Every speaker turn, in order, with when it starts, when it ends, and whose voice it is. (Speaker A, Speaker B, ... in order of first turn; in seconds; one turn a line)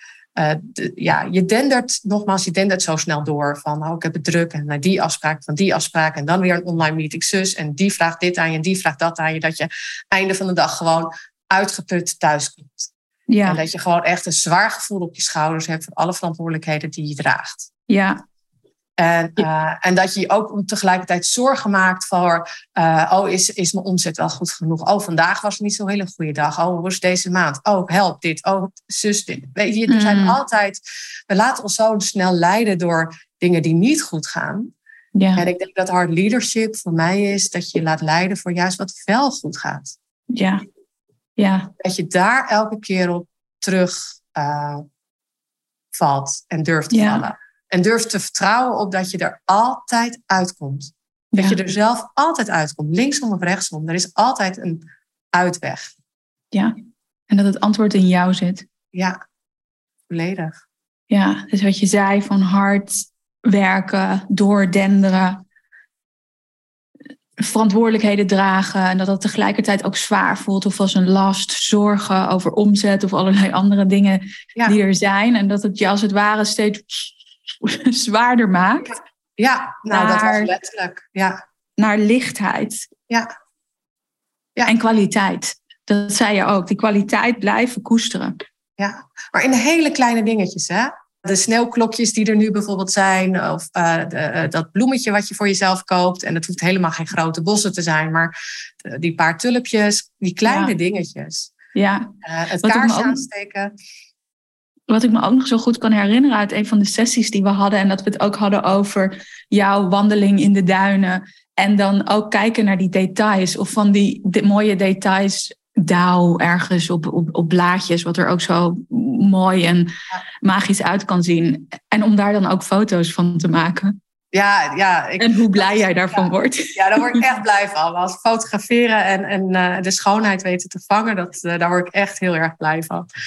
Speaker A: 0.3-12.9
Speaker B: 13.3-13.6
Speaker A: 13.4-17.7
Speaker B: 17.9-18.2
Speaker A: 19.0-34.7
Speaker B: 29.9-30.4
Speaker B: 35.1-35.4
Speaker A: 35.4-39.9
Speaker B: 40.3-40.6
Speaker B: 41.4-41.7
Speaker A: 41.8-44.8
Speaker A: 45.9-55.9
Speaker B: 46.9-47.3
Speaker B: 51.3-51.6
Speaker B: 57.3-58.7
Speaker A: 60.1-60.5
Speaker B: 61.1-65.4
Speaker B: 67.4-77.1
Speaker B: 77.6-78.9
Speaker A: 79.4-81.4
Speaker B: 79.9-80.5
Speaker B: 81.8-82.8
Speaker B: 84.7-88.3
Speaker A: 88.8-101.5
Speaker B: 100.5-100.7
Speaker B: 101.7-103.2
Speaker A: 102.2-103.7
Speaker B: 104.9-124.0
Speaker A: 124.3-133.1
Speaker B: 125.2-127.2